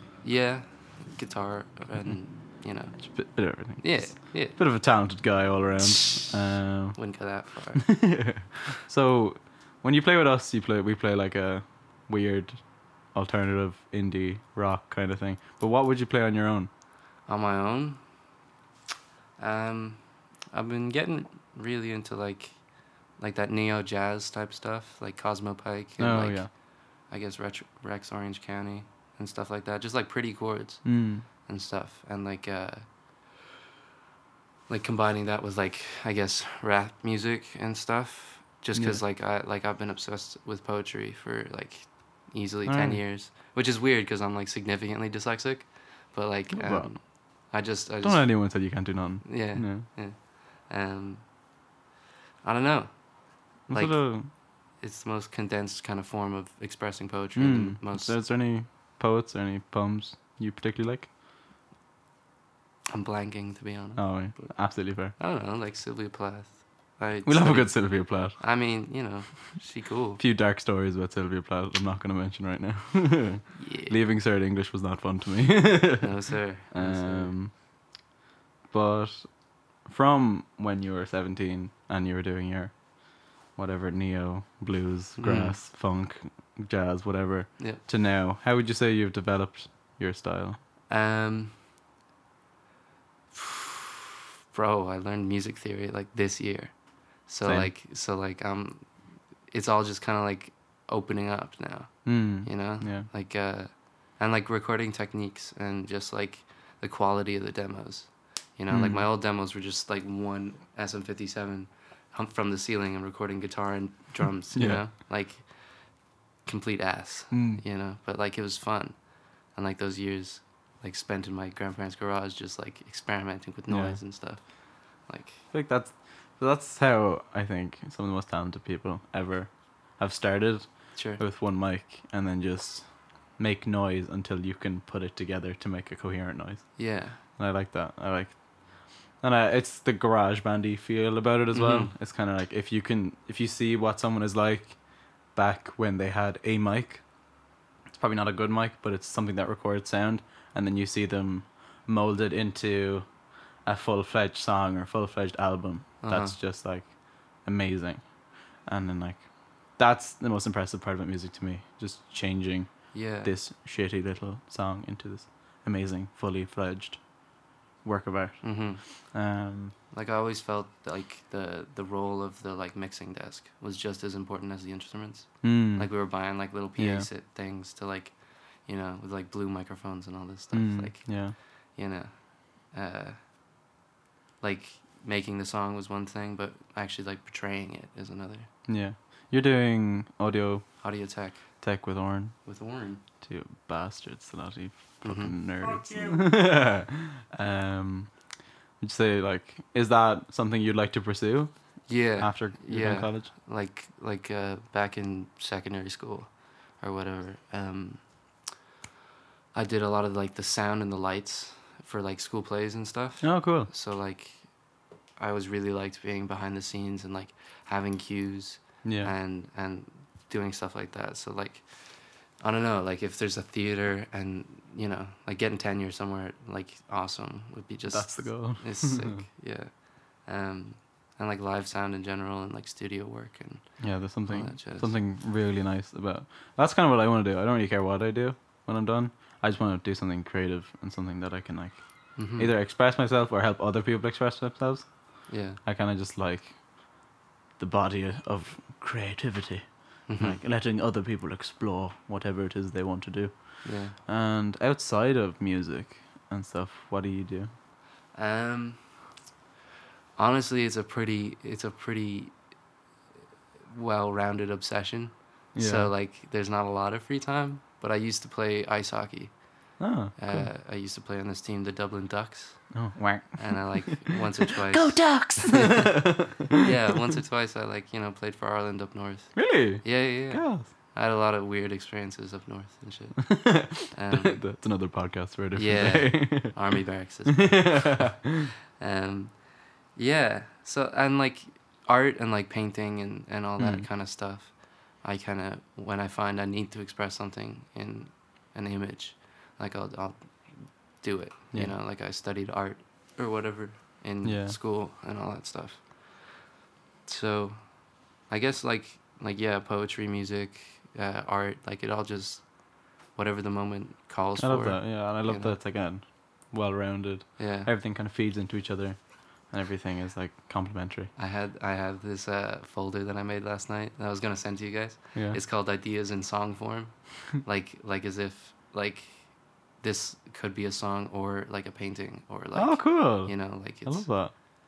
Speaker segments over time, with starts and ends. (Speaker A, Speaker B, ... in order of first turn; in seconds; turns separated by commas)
Speaker A: 0.2-4.6, Speaker B: 2.9-7.2, Speaker A: 6.9-8.1, Speaker B: 7.8-16.7, Speaker A: 17.2-18.1, Speaker A: 19.4-22.6, Speaker A: 23.1-32.8, Speaker B: 26.0-26.5, Speaker B: 30.8-31.2, Speaker A: 34.7-51.2, Speaker B: 38.7-39.0, Speaker B: 42.6-43.0, Speaker B: 46.5-46.9, Speaker B: 48.0-49.9, Speaker A: 52.4-58.2, Speaker B: 53.7-54.3, Speaker B: 57.4-61.1, Speaker A: 62.9-70.2, Speaker B: 64.0-65.1, Speaker B: 67.2-68.4, Speaker B: 70.2-77.6, Speaker A: 73.5-74.0, Speaker A: 76.0-77.4, Speaker B: 78.7-90.6, Speaker A: 85.2-85.6, Speaker A: 87.6-87.8, Speaker A: 90.9-91.5, Speaker A: 93.3-119.0, Speaker B: 97.4-97.7, Speaker B: 102.0-103.0, Speaker B: 108.7-109.1, Speaker B: 114.5-114.8, Speaker B: 117.3-117.6, Speaker A: 119.5-125.4, Speaker B: 123.7-124.0, Speaker B: 125.5-147.0, Speaker A: 130.9-131.2, Speaker A: 136.8-137.2, Speaker A: 141.5-141.9, Speaker B: 147.9-169.7, Speaker A: 156.0-156.4, Speaker A: 162.9-163.3, Speaker A: 168.4-168.8, Speaker A: 169.9-183.2, Speaker B: 175.4-175.9, Speaker B: 176.8-177.1, Speaker B: 180.5-181.3, Speaker A: 184.4-188.5, Speaker B: 188.7-191.1, Speaker A: 190.8-191.6, Speaker B: 191.6-192.4, Speaker A: 192.4-193.0, Speaker B: 193.2-198.2, Speaker A: 195.0-195.3, Speaker B: 198.8-203.3, Speaker A: 201.9-208.5, Speaker A: 209.5-214.6, Speaker B: 213.2-213.7, Speaker A: 215.2-235.0, Speaker B: 218.8-219.1, Speaker B: 227.9-229.2, Speaker B: 233.8-247.0, Speaker A: 242.2-242.5, Speaker A: 245.3-245.6, Speaker B: 247.6-257.5, Speaker A: 250.1-250.4, Speaker A: 253.6-254.0, Speaker A: 258.1-259.1, Speaker A: 260.1-262.3, Speaker A: 263.7-284.5, Speaker B: 265.5-265.9, Speaker B: 269.8-270.5, Speaker B: 272.7-274.1, Speaker B: 274.6-276.3, Speaker B: 279.3-280.7, Speaker B: 283.2-288.4, Speaker A: 285.5-306.4, Speaker B: 293.6-293.9, Speaker B: 304.2-304.6, Speaker A: 307.0-315.6, Speaker B: 314.4-321.1, Speaker A: 317.4-317.7, Speaker A: 321.1-334.2, Speaker B: 332.5-334.3